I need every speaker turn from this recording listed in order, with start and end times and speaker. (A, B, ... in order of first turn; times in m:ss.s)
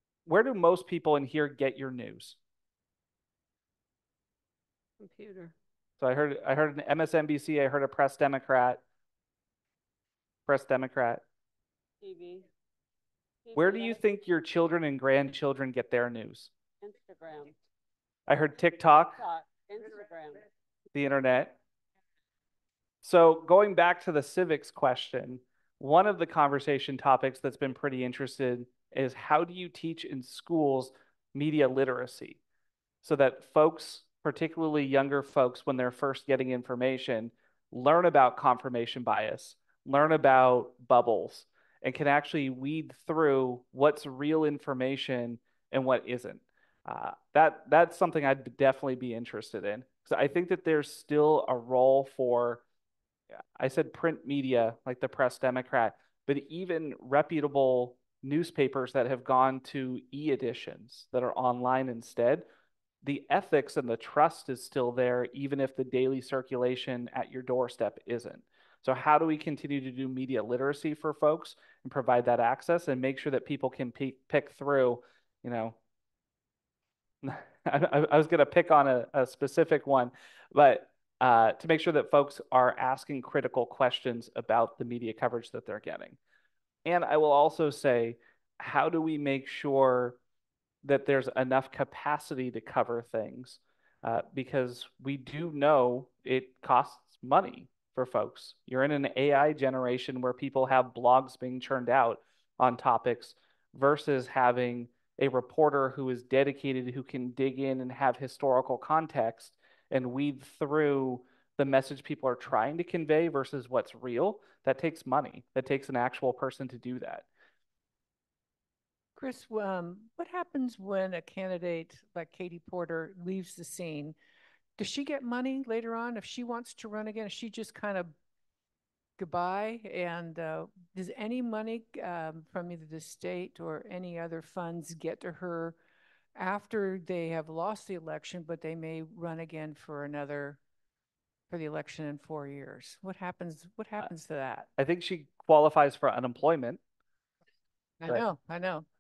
0:00.2-0:02.4 A
0:05.0-0:05.5 B
0:06.0-0:08.8 A
0:10.5-0:11.2 A
0:12.0-0:12.4 B
0:13.4-0:14.0 B
0:13.5-0:16.5 A
0:16.8-0:17.5 B
0:18.3-0:19.2 A
0:19.2-0:20.4 B
0:20.9-0:21.6 A
0:23.0-0:32.4 A
0:33.0-0:52.6 A
0:53.6-1:02.4 A
1:03.0-1:15.7 A
1:17.2-1:26.2 A
1:26.8-1:30.2 A
1:30.8-1:57.2 A
1:59.2-2:04.1 C
2:04.8-2:08.1 C
2:09.2-2:15.7 C
2:16.4-2:20.6 C
2:21.5-2:24.7 C
2:24.8-2:26.8 A
2:28.0-2:28.8 C